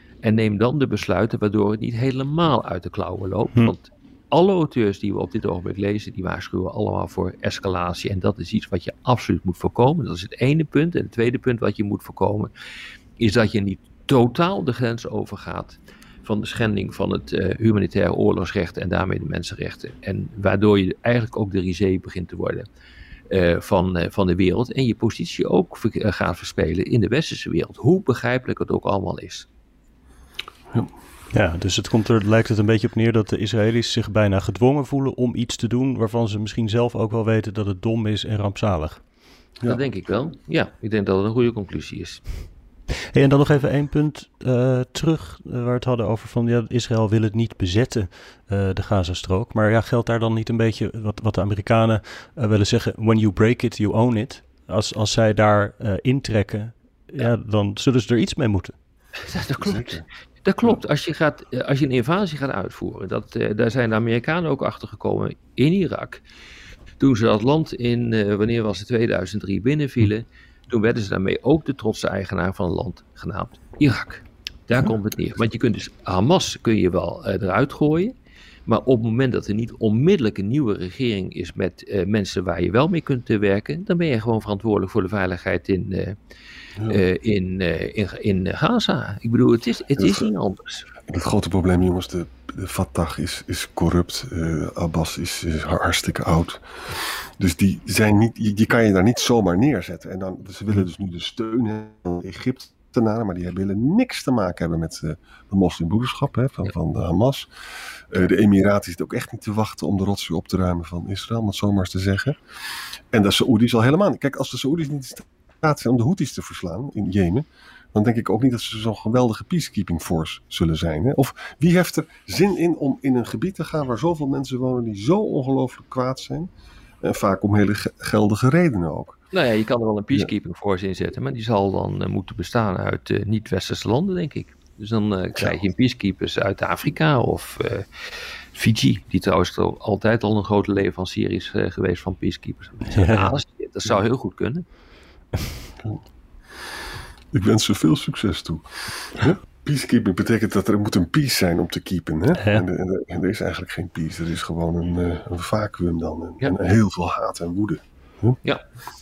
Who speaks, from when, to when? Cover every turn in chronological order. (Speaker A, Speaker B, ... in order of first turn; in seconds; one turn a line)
Speaker A: 0.2-12.5
Speaker A: 13.2-22.6
Speaker A: 23.3-29.5
Speaker B: 31.3-39.0
Speaker A: 39.7-42.3
Speaker B: 43.1-58.8
Speaker A: 59.2-66.2
Speaker C: 59.6-60.1
Speaker A: 67.0-78.1
Speaker A: 78.7-86.2
Speaker A: 86.9-90.9
Speaker C: 90.0-90.3
Speaker C: 91.1-107.5
Speaker C: 108.1-112.4
Speaker C: 113.1-126.5
Speaker C: 127.0-129.2
Speaker A: 129.3-137.9
Speaker A: 138.5-144.7
Speaker B: 142.9-143.3
Speaker C: 147.3-158.4
Speaker B: 152.4-152.7